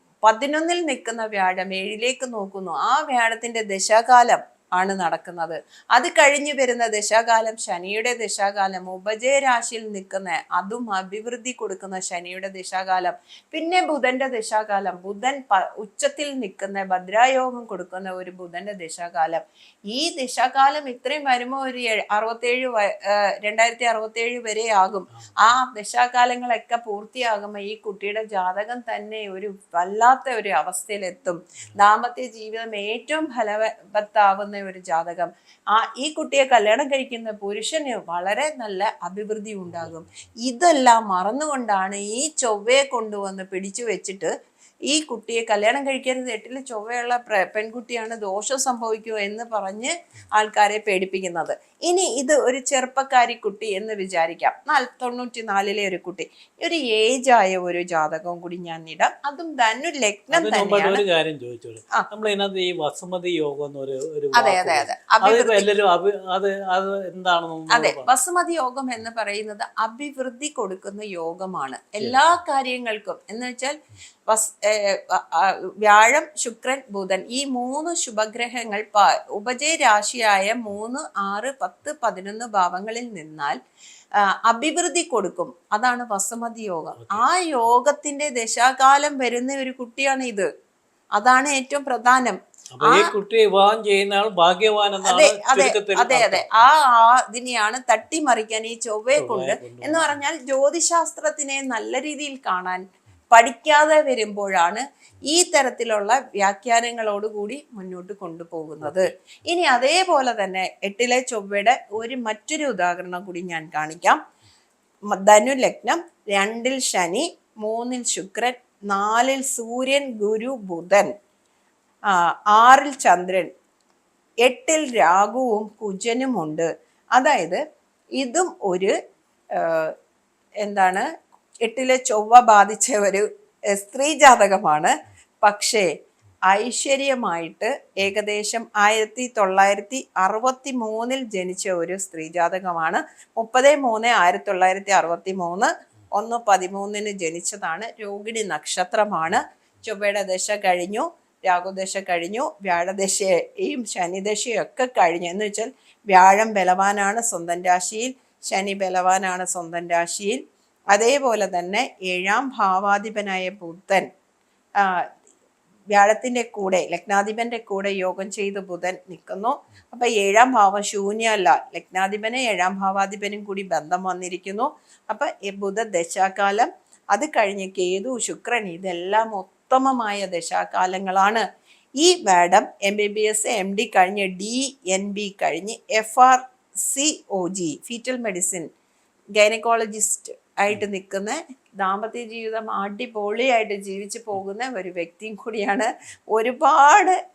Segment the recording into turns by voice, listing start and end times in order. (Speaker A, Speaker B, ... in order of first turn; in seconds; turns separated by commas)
Speaker A: 0.2-44.3, Speaker B: 25.1-25.5, Speaker A: 44.9-61.0, Speaker B: 60.3-68.1, Speaker A: 64.3-65.7, Speaker A: 67.7-73.8, Speaker A: 74.3-83.6, Speaker A: 84.3-90.5, Speaker A: 91.2-93.1, Speaker B: 92.8-96.7, Speaker A: 95.0-114.2, Speaker B: 99.2-100.2, Speaker B: 108.8-109.1, Speaker A: 115.1-121.1, Speaker A: 122.1-123.5, Speaker A: 124.4-127.6, Speaker A: 128.2-128.9, Speaker A: 129.5-129.9, Speaker A: 130.6-131.1, Speaker A: 131.6-135.9, Speaker A: 136.5-160.4, Speaker A: 160.9-164.1, Speaker A: 164.8-165.1, Speaker A: 165.9-181.4, Speaker A: 182.0-188.7, Speaker A: 189.4-197.2